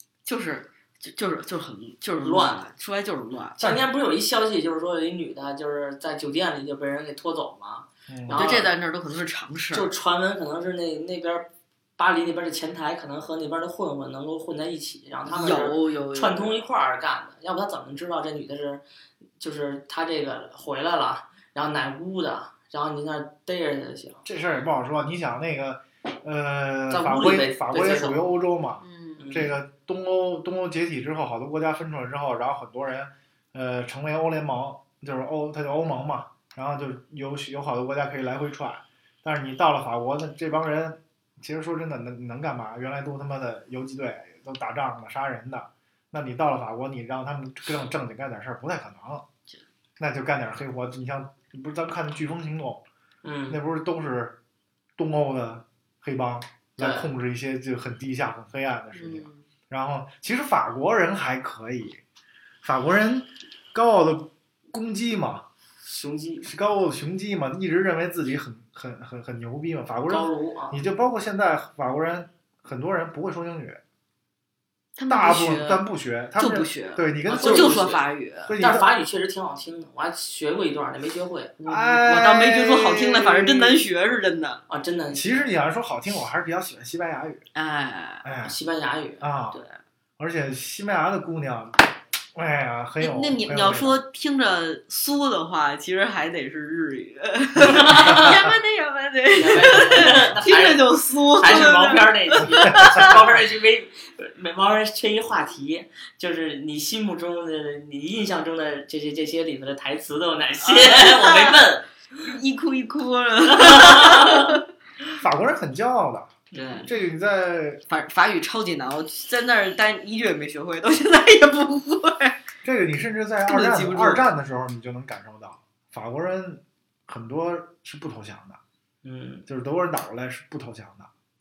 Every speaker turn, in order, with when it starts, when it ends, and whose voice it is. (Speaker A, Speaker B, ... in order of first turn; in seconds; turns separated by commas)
Speaker A: 0.2-3.6, Speaker B: 2.2-2.6, Speaker B: 3.6-8.7, Speaker C: 8.1-8.6, Speaker A: 8.3-9.9, Speaker B: 9.7-18.8, Speaker A: 15.2-16.6, Speaker B: 19.4-24.2, Speaker C: 24.2-49.2, Speaker B: 26.9-28.2, Speaker A: 28.8-29.4, Speaker B: 29.2-29.5, Speaker C: 50.0-52.8, Speaker B: 53.2-53.6, Speaker C: 53.5-54.4, Speaker C: 55.0-62.0, Speaker B: 56.8-57.1, Speaker A: 58.9-59.4, Speaker C: 62.6-65.4, Speaker B: 65.8-66.5, Speaker C: 66.4-73.8, Speaker B: 70.1-70.8, Speaker A: 75.0-78.5, Speaker C: 75.1-78.9, Speaker B: 77.3-78.0, Speaker B: 78.5-81.5, Speaker A: 81.6-84.6, Speaker C: 81.6-83.8, Speaker B: 84.7-85.5, Speaker C: 85.1-87.4, Speaker A: 87.5-88.2, Speaker C: 88.2-88.5, Speaker B: 88.4-89.3, Speaker C: 89.2-89.6, Speaker C: 90.2-94.0, Speaker A: 93.0-103.2, Speaker B: 97.6-98.2, Speaker C: 97.9-98.5, Speaker B: 99.3-111.9, Speaker C: 102.8-103.1, Speaker A: 110.6-111.7, Speaker A: 112.2-114.6, Speaker B: 113.5-114.5, Speaker C: 115.2-116.3, Speaker B: 116.5-116.9, Speaker A: 116.6-116.9, Speaker C: 116.8-117.8, Speaker A: 117.9-122.4, Speaker C: 122.6-128.6, Speaker A: 123.4-124.3, Speaker B: 129.0-129.4, Speaker C: 129.5-131.1